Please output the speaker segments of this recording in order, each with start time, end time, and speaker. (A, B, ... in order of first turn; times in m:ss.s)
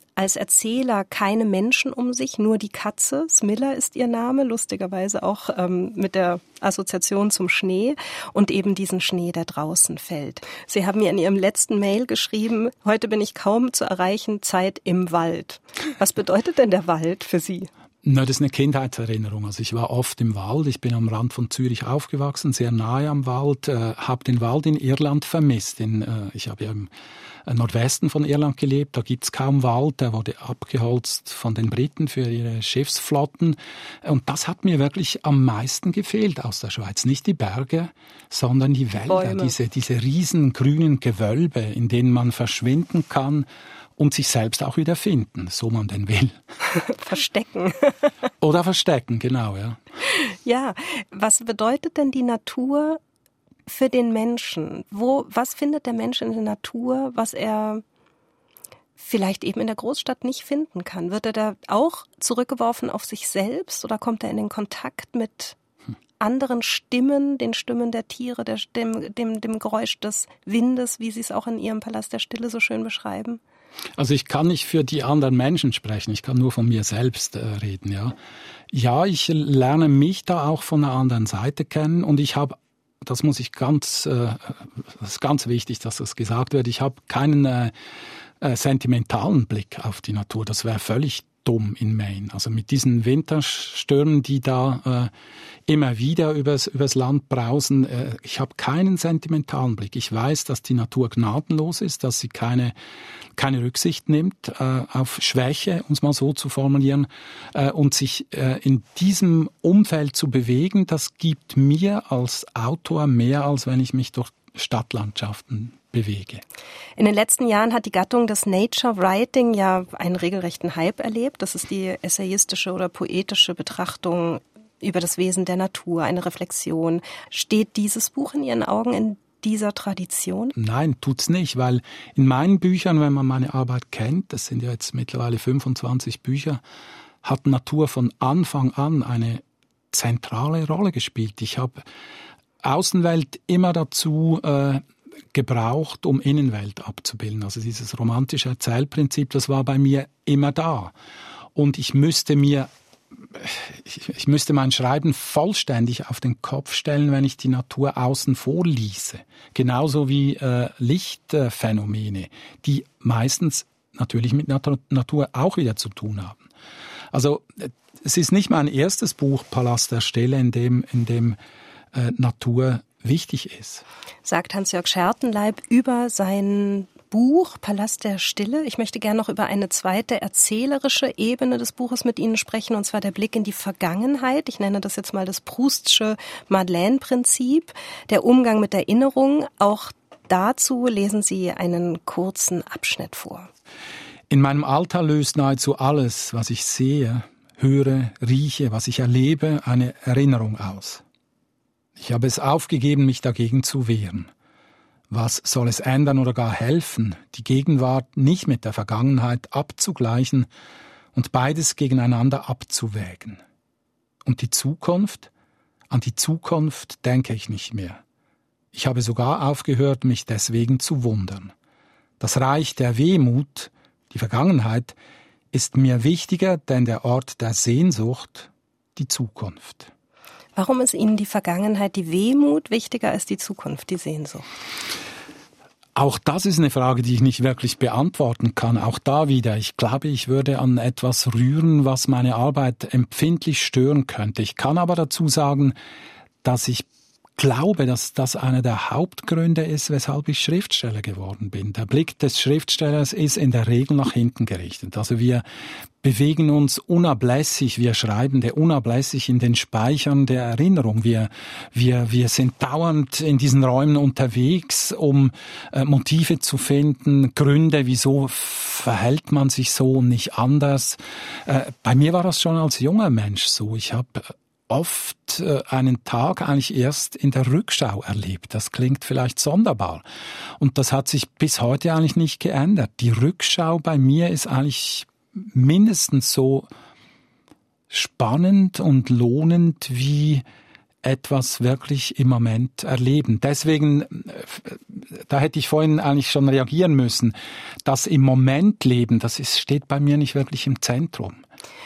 0:00.2-0:17.7 A
0:18.0-0:26.9 B
0:27.5-0:46.4 B
0:39.1-0:39.6 A
0:46.8-0:48.1 A
0:48.4-0:49.8 B
0:50.1-0:53.0 A
0:53.7-0:57.8 A
0:59.0-1:05.6 A
1:06.2-1:13.4 A
1:14.0-1:18.2 B
1:18.7-1:27.7 B
1:28.4-1:35.1 B
1:35.7-1:42.8 B
1:43.4-1:56.4 B
1:57.0-2:10.5 A
2:10.6-2:16.6 B
2:17.2-2:21.8 B
2:22.6-2:24.8 B
2:25.3-2:30.9 B
2:31.6-2:32.7 B
2:33.3-2:46.4 B
2:47.1-2:51.4 B
2:51.9-2:53.8 B
2:54.2-3:13.5 A
3:14.3-3:21.0 B
3:22.0-3:24.3 B
3:25.1-3:30.5 B
3:31.2-3:33.4 B
3:34.2-3:35.3 B
3:35.9-3:38.0 B
3:38.7-3:41.5 B
3:42.2-3:45.0 B
3:45.5-3:49.9 B
3:50.6-3:54.5 A
3:56.0-4:05.8 B
4:06.4-4:15.4 B
4:16.0-4:40.0 B
4:40.6-4:46.7 B
4:47.9-4:50.4 B
4:51.0-5:01.4 B